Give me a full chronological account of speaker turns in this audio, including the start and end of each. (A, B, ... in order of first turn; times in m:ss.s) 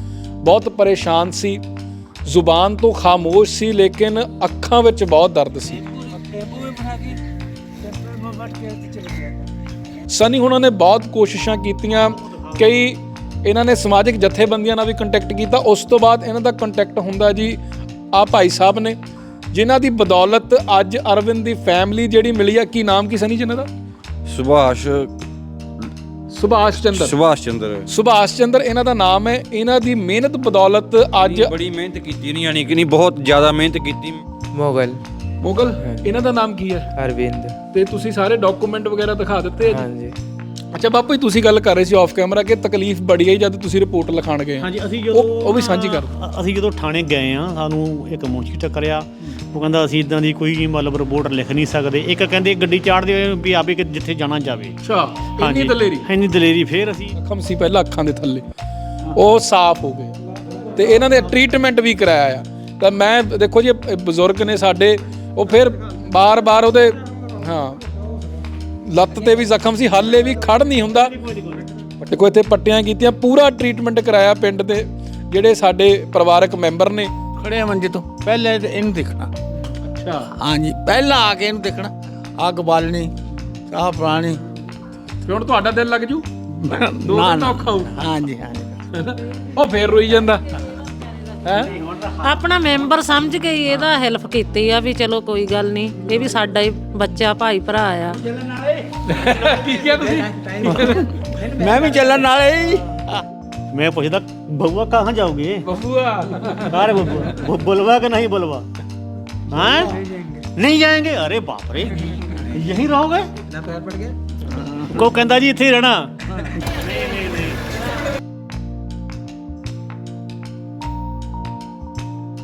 0:00.4-0:01.6 A
0:02.3-0:05.8 A
0:06.5-0:07.0 B
0:10.1-0:17.6 A
0:12.2-0:12.5 C
0:18.1-0:19.0 A
0:19.5-0:23.7 A
0:24.3-0:25.1 D
0:26.3-0:27.2 A
0:26.9-0:27.9 D
0:27.9-0:31.5 A
0:31.2-0:34.2 D
0:34.5-0:35.0 E
0:35.4-0:36.9 A
0:35.8-0:36.2 E
0:37.0-0:37.6 E
0:37.7-0:39.8 A
0:39.6-0:40.2 E
0:40.7-0:46.1 A
0:44.6-0:54.8 C
0:54.8-0:56.1 A
0:55.4-0:57.1 C
0:57.2-0:58.4 A
0:59.1-1:00.2 A
1:00.8-1:07.8 A
1:08.8-1:11.1 A
1:10.8-1:11.9 C
1:12.0-1:17.1 A
1:17.4-1:19.3 B
1:19.7-1:20.3 A
1:20.4-1:23.1 B
1:23.7-1:24.4 B
1:25.2-1:26.2 A
1:26.5-1:28.8 B
1:27.0-1:28.0 A
1:28.9-1:30.4 A
1:31.4-1:31.7 A
1:31.5-1:32.2 C
1:32.2-1:38.2 F
1:39.0-1:41.1 A
1:40.7-1:43.2 B
1:43.7-1:45.7 C
1:45.9-1:46.6 A
1:46.5-1:48.7 C
1:49.5-1:50.0 C
1:50.6-1:53.3 C
1:54.5-1:54.8 B
1:54.9-1:57.6 C